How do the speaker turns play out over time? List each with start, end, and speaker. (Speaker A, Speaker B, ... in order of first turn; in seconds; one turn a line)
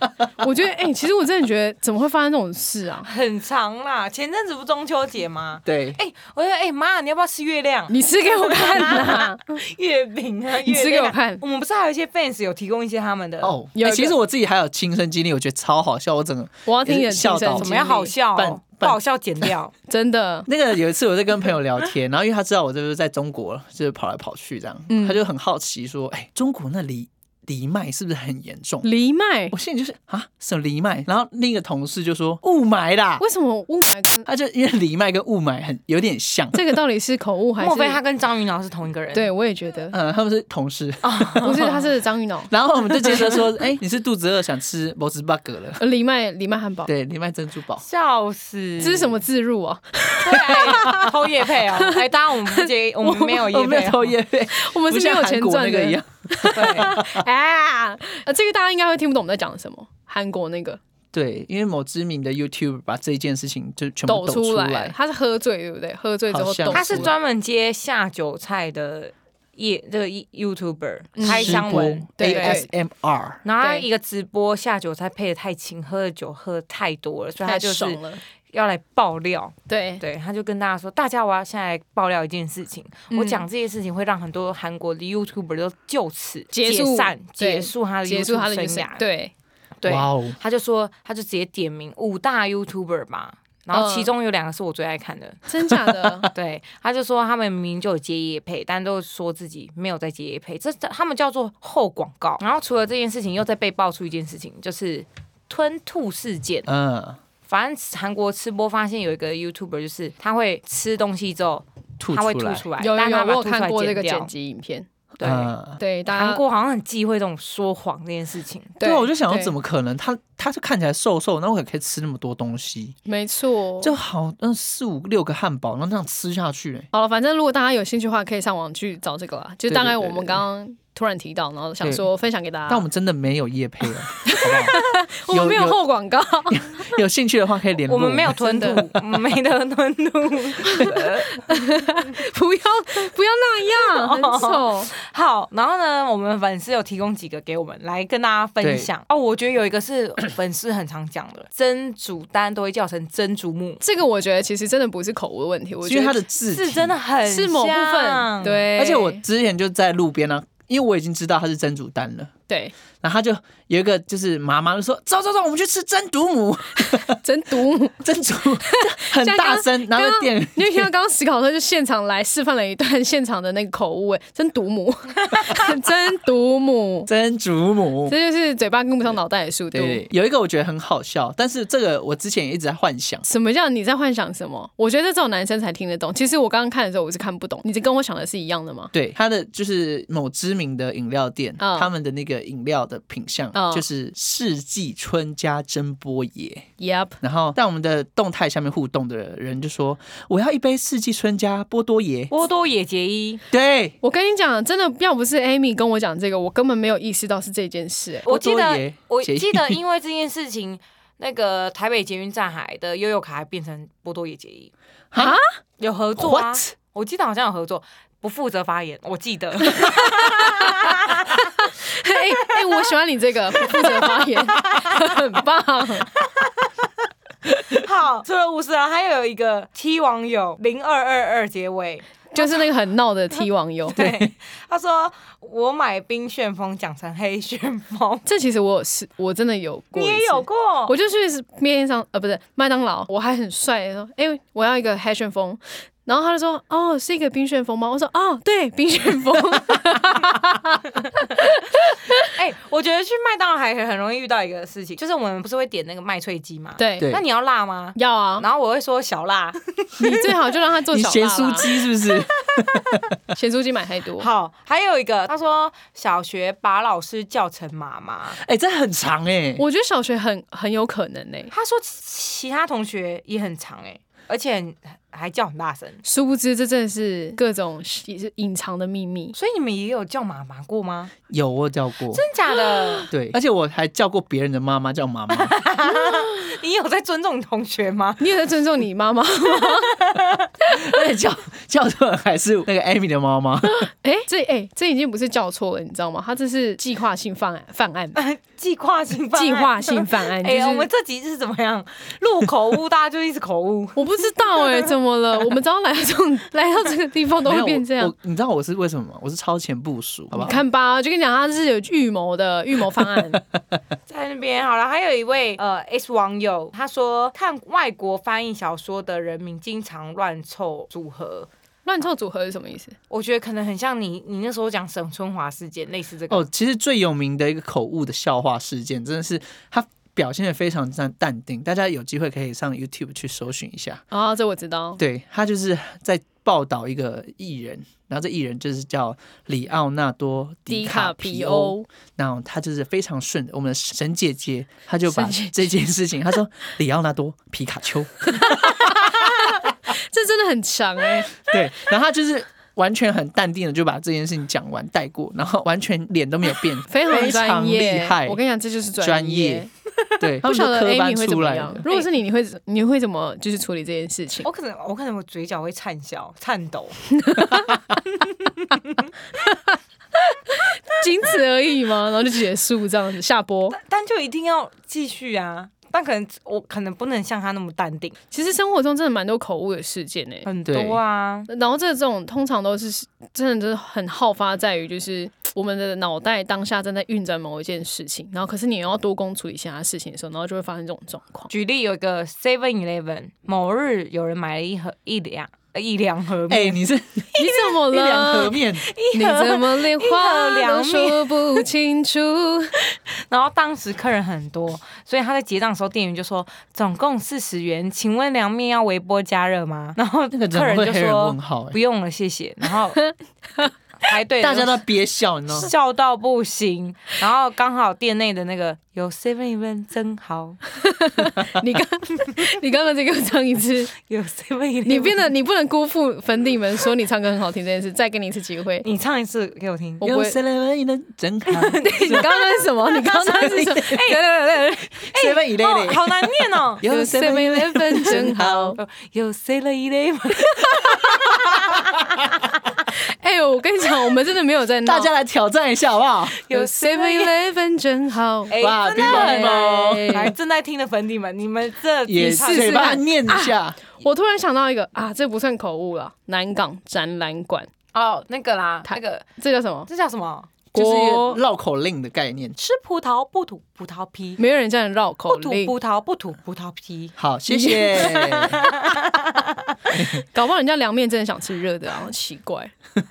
Speaker A: 0.4-3.1
Speaker B: 3.0-13.6
Speaker C: 5.7-6.0
Speaker A: 7.9-9.6
Speaker A: 10.6-11.4
Speaker C: 13.4-17.7
Speaker A: 13.8-14.2
Speaker A: 16.7-18.1
Speaker B: 17.6-19.7
Speaker C: 18.4-19.5
Speaker A: 19.9-20.5
Speaker C: 20.5-28.9
Speaker A: 24.9-25.2
Speaker A: 28.8-29.5
Speaker C: 29.5-33.2
Speaker A: 33.2-34.3
Speaker C: 34.3-36.8
Speaker A: 36.5-38.0
Speaker B: 37.6-39.3
Speaker A: 39.1-40.0
Speaker C: 39.9-41.6
Speaker B: 41.0-41.9
Speaker A: 41.4-42.5
Speaker C: 42.5-45.8
Speaker A: 45.8-46.9
Speaker C: 46.9-47.8
Speaker B: 47.8-49.2
Speaker A: 48.8-51.1
Speaker B: 50.2-54.2
Speaker A: 51.8-53.4
Speaker C: 53.4-57.3
Speaker A: 54.5-60.8
Speaker B: 56.5-57.0
Speaker C: 61.1-65.0
Speaker A: 64.1-67.1
Speaker C: 66.3-67.1
Speaker B: 66.7-72.7
Speaker A: 71.2-72.7
Speaker C: 71.2-73.4
Speaker B: 73.4-89.0
Speaker A: 77.4-78.2
Speaker A: 79.7-80.0
Speaker A: 83.1-83.5
Speaker A: 86.5-89.3
Speaker B: 89.8-95.5
Speaker C: 89.9-90.4
Speaker A: 93.7-94.1
Speaker A: 95.5-96.3
Speaker B: 96.3-106.7
Speaker C: 106.7-107.2
Speaker B: 107.5-114.3
Speaker C: 112.0-112.7
Speaker A: 112.8-114.9
Speaker B: 115.2-115.5
Speaker C: 115.2-115.8
Speaker A: 115.8-116.4
Speaker B: 116.1-118.8
Speaker A: 118.8-119.5
Speaker C: 118.8-123.0
Speaker A: 123.1-123.9
Speaker C: 123.8-126.9
Speaker A: 126.9-132.8
Speaker C: 129.7-130.4
Speaker C: 132.7-135.8
Speaker A: 134.2-136.9
Speaker C: 136.5-138.9
Speaker B: 137.9-141.6
Speaker A: 138.4-138.8
Speaker A: 140.7-144.9
Speaker B: 143.7-153.8
Speaker C: 148.6-148.9
Speaker A: 153.8-156.2
Speaker C: 155.8-157.0
Speaker B: 156.5-158.7
Speaker A: 157.2-159.2
Speaker C: 158.8-162.3
Speaker A: 162.5-162.8
Speaker C: 163.0-167.2
Speaker A: 166.9-168.0
Speaker C: 168.0-170.9
Speaker A: 168.6-177.1
Speaker C: 177.1-178.2
Speaker A: 178.1-180.0
Speaker C: 179.7-183.3
Speaker A: 183.3-188.9
Speaker C: 188.9-196.7
Speaker A: 191.6-191.9
Speaker A: 193.5-193.8
Speaker A: 196.8-197.2
Speaker C: 197.2-202.3
Speaker B: 202.3-203.4
Speaker C: 203.5-204.0
Speaker A: 204.0-208.3
Speaker B: 208.3-214.7
Speaker C: 208.3-209.8
Speaker C: 215.1-215.4
Speaker A: 215.2-215.5
Speaker B: 215.8-221.4
Speaker C: 216.2-216.7
Speaker A: 219.7-226.1
Speaker B: 222.5-222.8
Speaker B: 223.6-225.1
Speaker B: 226.2-226.7
Speaker B: 227.7-232.7
Speaker A: 232.3-234.0
Speaker B: 233.9-238.2
Speaker C: 234.0-234.3
Speaker A: 238.3-252.3
Speaker B: 239.9-240.9
Speaker B: 252.1-260.4
Speaker A: 256.8-257.1
Speaker A: 258.0-258.5
Speaker A: 260.0-261.7
Speaker C: 260.9-263.1
Speaker B: 262.1-263.0
Speaker A: 263.3-264.3
Speaker B: 264.2-268.4
Speaker C: 268.4-269.6
Speaker A: 269.6-271.5
Speaker B: 271.5-276.0
Speaker A: 276.1-279.4
Speaker B: 279.3-281.1
Speaker C: 281.3-282.2
Speaker B: 282.1-283.1
Speaker C: 283.1-285.6
Speaker B: 285.3-288.4
Speaker A: 288.2-290.1
Speaker B: 289.6-290.5
Speaker C: 290.7-293.9
Speaker A: 293.8-298.2
Speaker B: 298.1-304.9
Speaker A: 299.3-300.9
Speaker A: 304.0-308.1
Speaker C: 307.4-310.6
Speaker A: 310.3-313.4
Speaker B: 314.1-321.5
Speaker A: 321.9-323.0
Speaker B: 323.1-326.5
Speaker C: 326.3-334.0
Speaker A: 334.1-335.0
Speaker C: 335.0-349.1
Speaker A: 340.7-341.9
Speaker A: 345.1-345.7
Speaker A: 348.3-351.5
Speaker C: 351.5-358.4
Speaker A: 356.9-359.7
Speaker C: 359.0-359.7
Speaker C: 360.2-361.9
Speaker A: 360.4-364.5
Speaker B: 364.4-367.0
Speaker A: 367.1-367.7
Speaker B: 368.3-369.1
Speaker A: 369.4-369.8
Speaker A: 370.3-373.8
Speaker B: 373.7-378.2
Speaker A: 378.3-380.5
Speaker B: 380.4-381.5
Speaker C: 380.7-381.0
Speaker A: 381.5-391.5
Speaker B: 391.5-396.8
Speaker C: 396.5-398.9
Speaker A: 397.4-398.6
Speaker B: 397.4-397.8
Speaker B: 398.7-401.7
Speaker A: 399.1-402.8
Speaker B: 402.9-413.0
Speaker C: 410.3-411.8
Speaker A: 413.0-413.7
Speaker B: 414.0-414.8
Speaker C: 414.4-415.7
Speaker B: 415.5-420.6
Speaker A: 420.8-423.9
Speaker B: 424.0-425.3
Speaker A: 424.9-428.9
Speaker B: 428.8-430.0
Speaker A: 430.0-430.4
Speaker C: 430.0-432.3
Speaker B: 431.5-434.4
Speaker A: 431.8-435.1
Speaker C: 433.2-434.1
Speaker B: 434.9-436.9
Speaker C: 435.1-438.8
Speaker A: 436.8-438.8
Speaker B: 438.1-442.2
Speaker A: 440.5-441.0
Speaker A: 443.0-445.1
Speaker C: 444.8-446.4
Speaker B: 446.4-447.4
Speaker A: 446.5-450.3
Speaker B: 448.5-452.9
Speaker C: 448.6-450.3
Speaker C: 452.1-453.8
Speaker A: 452.2-457.7
Speaker B: 457.9-459.2
Speaker A: 458.9-459.9
Speaker B: 459.9-460.5
Speaker C: 460.7-462.6
Speaker A: 460.8-461.4
Speaker B: 462.6-464.4
Speaker A: 464.4-465.7
Speaker B: 465.3-467.2
Speaker C: 467.2-468.6
Speaker A: 467.5-468.1
Speaker B: 467.9-469.8
Speaker C: 469.9-470.2
Speaker A: 470.0-472.7